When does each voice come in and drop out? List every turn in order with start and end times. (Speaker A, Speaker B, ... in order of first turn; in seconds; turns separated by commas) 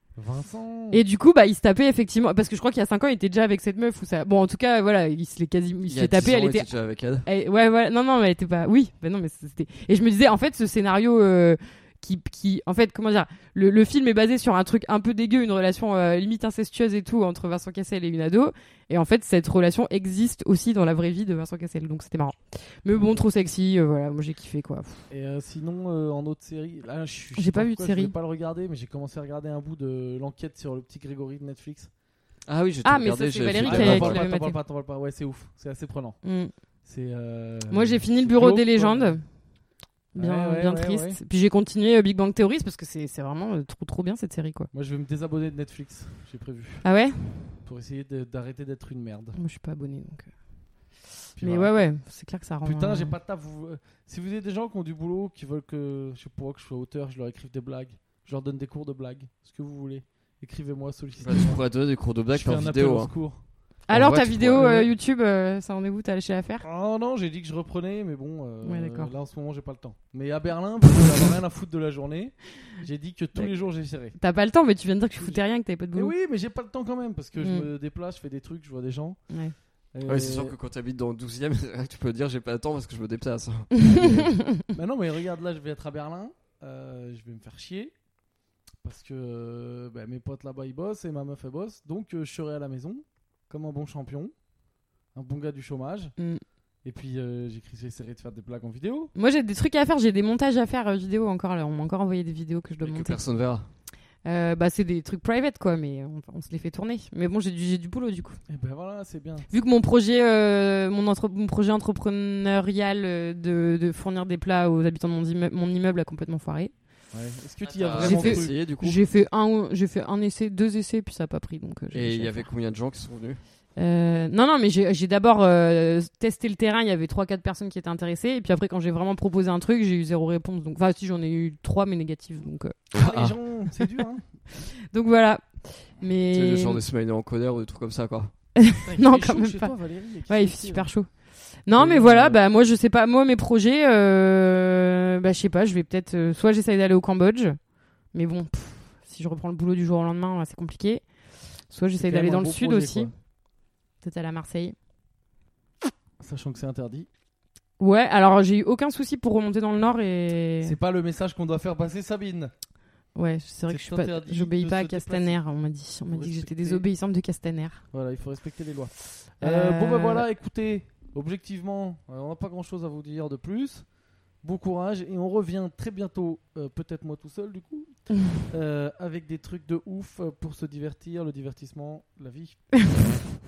Speaker A: 0.1-1.0, Speaker B: 0.9-6.7, Speaker C: 5.9-7.2, Speaker B: 7.2-25.0, Speaker A: 22.9-23.2, Speaker A: 25.1-31.9, Speaker B: 27.4-28.1, Speaker C: 32.5-34.2, Speaker B: 32.8-34.6, Speaker A: 33.4-36.2, Speaker B: 36.2-36.5, Speaker A: 36.8-39.2, Speaker B: 37.7-39.2, Speaker A: 40.1-41.2, Speaker B: 40.1-44.7, Speaker A: 44.7-46.8, Speaker B: 46.8-47.5, Speaker A: 47.6-49.4, Speaker B: 49.4-50.3, Speaker A: 51.4-51.8, Speaker B: 51.4-53.1, Speaker A: 52.6-61.6, Speaker C: 61.2-63.1, Speaker A: 62.3-63.4, Speaker B: 63.9-66.6, Speaker C: 63.9-64.7, Speaker A: 64.5-64.9, Speaker A: 66.6-74.2, Speaker B: 68.6-69.1, Speaker B: 74.1-76.1, Speaker A: 75.9-79.2, Speaker B: 77.4-77.7, Speaker A: 79.9-80.5, Speaker C: 80.0-84.4, Speaker B: 83.9-84.5, Speaker A: 84.7-87.9, Speaker A: 88.8-94.3, Speaker A: 95.1-96.1, Speaker B: 96.2-96.4, Speaker A: 96.8-99.1, Speaker B: 99.1-103.2, Speaker C: 102.8-103.7, Speaker B: 104.2-108.4, Speaker A: 108.5-109.5, Speaker B: 109.5-116.7, Speaker A: 117.1-118.5, Speaker C: 117.8-119.0, Speaker B: 118.0-122.5, Speaker C: 121.9-123.4, Speaker B: 123.8-132.8, Speaker C: 132.9-133.3, Speaker A: 132.9-134.2, Speaker B: 134.6-136.8, Speaker C: 136.3-138.3, Speaker B: 138.6-139.7, Speaker A: 138.8-140.9, Speaker B: 140.3-141.1, Speaker B: 141.6-147.6, Speaker A: 141.8-142.4, Speaker B: 148.1-151.0, Speaker B: 151.7-153.1, Speaker A: 152.0-153.1, Speaker B: 154.0-154.7, Speaker A: 156.2-157.1, Speaker B: 157.8-160.8, Speaker A: 160.6-162.5, Speaker B: 163.1-167.8, Speaker A: 163.7-165.4, Speaker A: 166.1-166.8, Speaker A: 167.9-173.8, Speaker B: 169.4-170.2, Speaker A: 174.4-182.6